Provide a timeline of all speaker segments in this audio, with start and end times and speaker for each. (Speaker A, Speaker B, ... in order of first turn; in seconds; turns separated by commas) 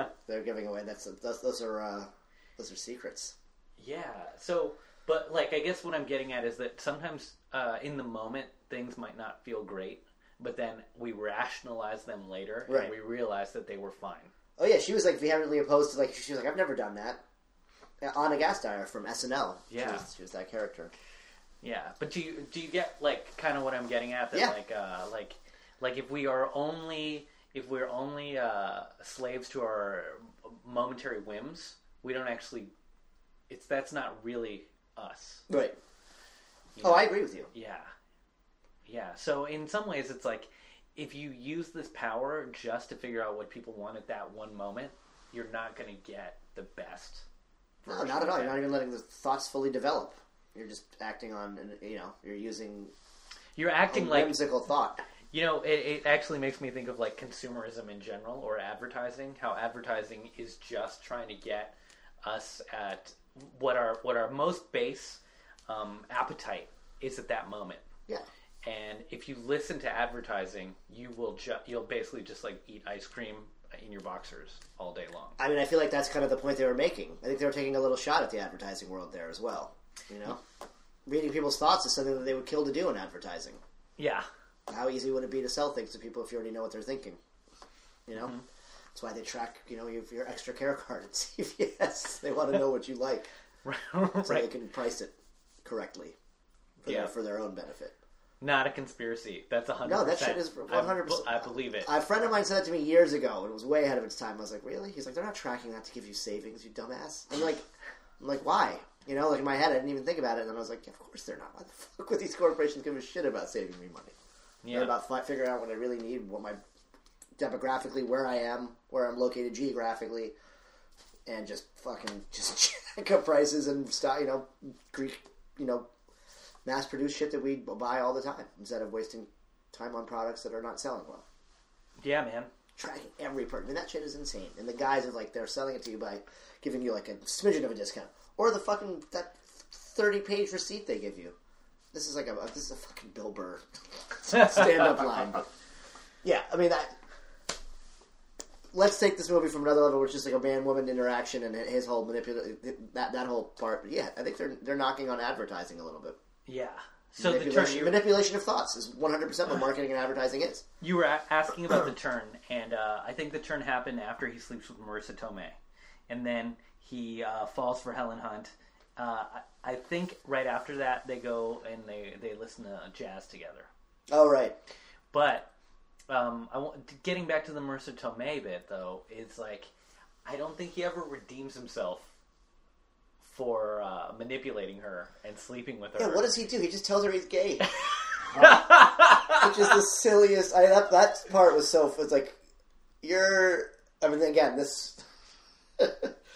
Speaker A: 0.2-3.3, Speaker B: 3.8-14.3, Speaker A: 12.7-12.9, Speaker A: 14.6-17.2, Speaker A: 18.0-20.9, Speaker B: 19.7-20.0, Speaker B: 21.6-32.7, Speaker B: 33.5-35.4, Speaker A: 35.5-35.8, Speaker B: 36.8-37.9, Speaker A: 36.8-37.5, Speaker B: 38.9-47.2, Speaker B: 47.8-48.6, Speaker A: 47.9-52.9, Speaker B: 53.5-54.4, Speaker A: 53.9-55.0, Speaker B: 55.3-67.8, Speaker B: 68.6-75.4, Speaker A: 75.4-80.4, Speaker A: 81.0-83.6, Speaker B: 84.0-84.2, Speaker A: 84.7-87.2, Speaker A: 88.1-88.4, Speaker A: 88.9-93.3, Speaker B: 93.6-94.5, Speaker A: 94.2-96.2, Speaker A: 96.8-98.0, Speaker B: 96.8-97.1, Speaker B: 98.4-101.9, Speaker A: 99.8-107.6, Speaker A: 108.2-114.1, Speaker B: 114.6-114.9, Speaker A: 114.7-116.6, Speaker A: 117.4-120.3, Speaker A: 121.3-125.9, Speaker A: 126.6-131.2, Speaker B: 132.0-132.5, Speaker A: 132.8-141.3, Speaker A: 141.9-145.4, Speaker A: 146.2-146.9, Speaker A: 148.7-156.2, Speaker B: 156.5-158.0, Speaker A: 157.2-160.6, Speaker B: 160.8-165.6, Speaker B: 166.1-173.7, Speaker A: 174.1-174.6, Speaker B: 175.1-175.5, Speaker B: 176.1-179.7, Speaker B: 180.2-182.1, Speaker B: 183.2-186.3, Speaker A: 186.0-187.7, Speaker B: 188.3-189.4, Speaker A: 188.3-192.4, Speaker A: 193.0-195.0, Speaker A: 195.8-196.1